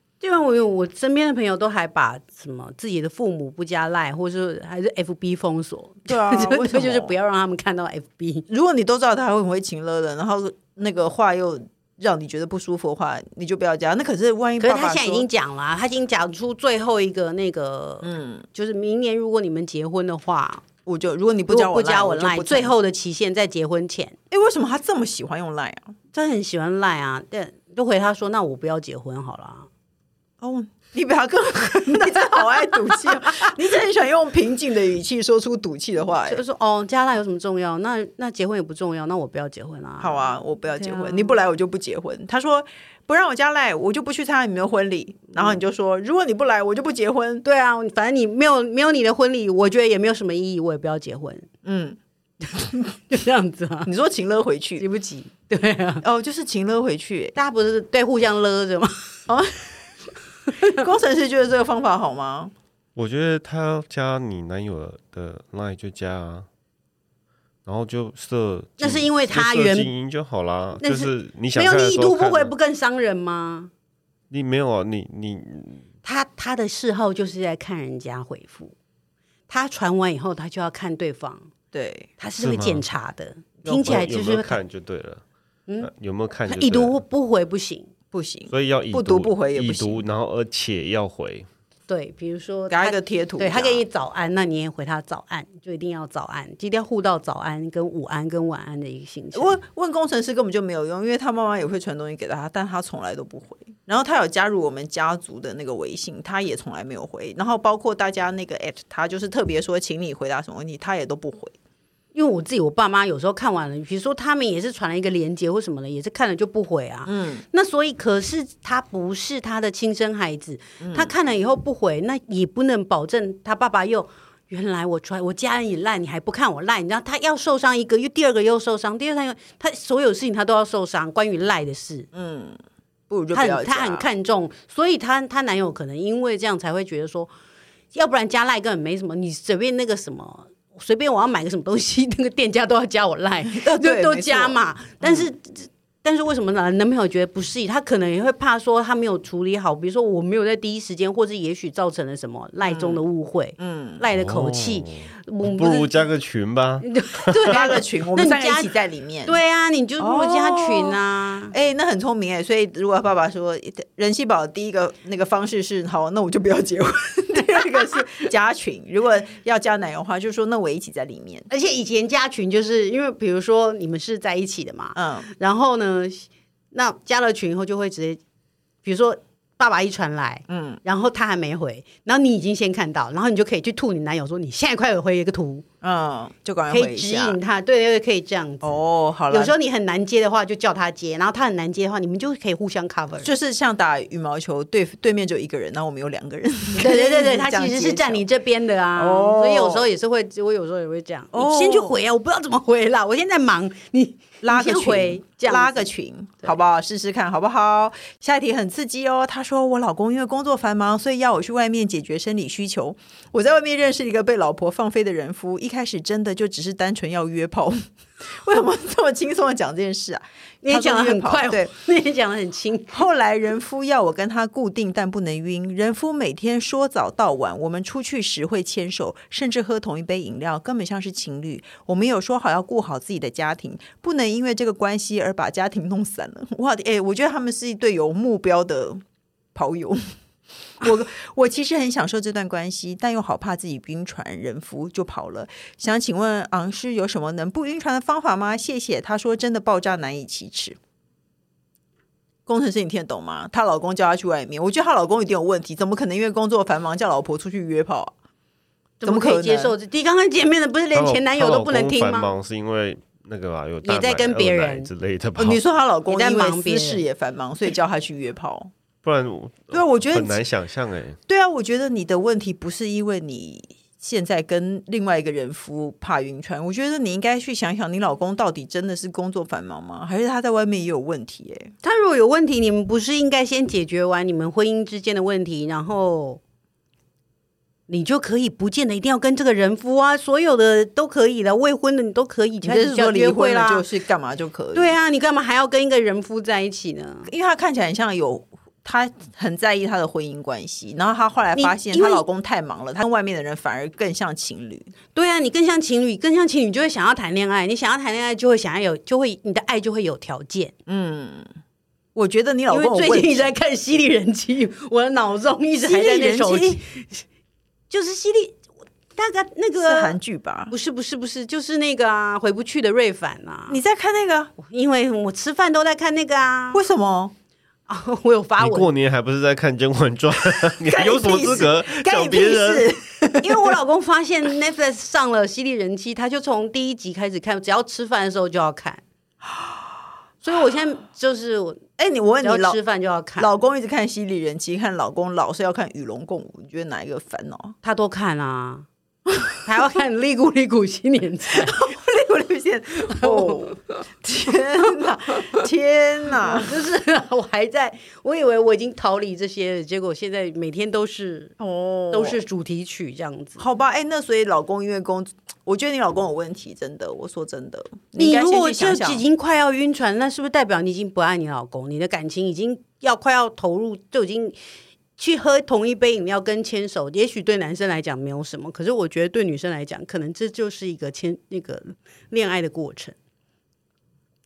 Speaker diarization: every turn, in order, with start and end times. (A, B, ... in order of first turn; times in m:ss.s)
0:00.2-0:08.5 A
0:06.1-0:07.1 B
0:08.5-0:15.3 B
0:14.6-0:20.6 A
0:18.0-0:18.4 B
0:20.8-0:22.7 B
0:21.5-0:24.2 A
0:24.3-0:25.9 B
0:26.1-0:29.7 A
0:30.4-0:36.4 B
0:36.2-0:41.4 A
0:40.0-0:47.4 B
0:47.4-0:51.5 A
0:51.6-0:52.0 B
0:52.6-0:53.9 A
0:53.8-0:54.8 B
0:54.8-0:56.0 A
0:56.0-0:57.4 B
0:57.4-0:59.1 A
0:59.3-0:59.7 B
1:00.6-1:02.5 B
1:03.0-1:06.5 C
1:07.6-1:12.5 C
1:08.8-1:09.9 A
1:10.8-1:13.7 A
1:14.3-1:15.8 C
1:16.0-1:18.7 A
1:19.5-1:21.5 A
1:21.7-1:22.1 B
1:22.2-1:24.6 A
1:22.4-1:22.8 C
1:23.6-1:25.2 C
1:25.8-1:27.0 C
1:26.5-1:27.9 A
1:28.1-1:30.0 B
1:28.5-1:31.5 C
1:31.9-1:39.6 A
1:32.7-1:33.8 B
1:39.3-1:51.5 B
1:52.1-2:12.1 A
1:57.0-1:57.4 B
2:00.8-2:01.1 B
2:12.1-2:14.1 B
2:13.3-2:17.3 A
2:17.9-2:36.0 A
2:23.5-2:25.3 B
2:32.6-2:33.0 B
2:33.6-2:34.0 B
2:34.1-2:37.6 C
2:36.8-2:38.7 A
2:37.5-2:39.4 B
2:39.2-2:41.5 A
2:40.0-2:41.0 B
2:41.5-2:51.5 B
2:51.5-2:58.2 A
2:54.9-2:55.3 B
2:58.8-3:05.6 A
3:00.5-3:00.8 B
3:05.8-3:07.4 B
3:06.7-3:08.7 A
3:08.6-3:09.5 B
3:09.3-3:13.3 A
3:13.2-3:18.2 B
3:16.7-3:25.8 A
3:19.0-3:19.9 B
3:21.3-3:21.9 B
3:24.4-3:41.7 B
3:40.6-3:43.0 A
3:42.9-3:59.0 B
3:59.5-4:00.0 B
4:00.8-4:10.8 B
4:12.5-4:18.1 B
4:19.0-4:22.3 A
4:19.0-4:19.7 B
4:20.9-4:25.6 C
4:23.8-4:24.9 A
4:25.4-4:28.7 B
4:26.1-4:27.0 A
4:29.0-4:31.2 C
4:29.7-4:30.4 B
4:31.3-4:41.7 B
4:41.8-4:46.4 A
4:47.9-4:53.8 A
4:52.6-4:55.0 B
4:54.7-4:57.3 A
4:57.2-5:04.9 B
5:01.6-5:02.2 A
5:05.1-5:10.7 A
5:10.9-5:11.5 B
5:12.1-5:13.5 B
5:12.7-5:17.2 A
5:15.8-5:16.8 B
5:17.9-5:18.6 A
5:19.2-5:20.2 A
5:19.8-5:20.7 B
5:20.7-5:23.8 A
5:23.7-5:24.5 B
5:24.6-5:26.8 A
5:26.7-5:27.3 B
5:27.9-5:28.9 A
5:28.6-5:32.9 C
5:30.6-5:33.7 B
5:33.4-5:39.0 A
5:40.4-5:41.8 A
5:42.0-5:42.8 B
5:42.4-5:43.5 A
5:43.4-5:47.7 B
5:47.8-5:48.8 A
5:49.6-5:51.8 A
5:51.5-5:56.7 B
5:53.1-5:53.7 A
5:56.4-6:01.5 A
6:01.6-6:02.4 B
6:02.1-6:03.6 A
6:03.6-6:09.2 B
6:08.2-6:14.6 A
6:15.2-6:23.1 A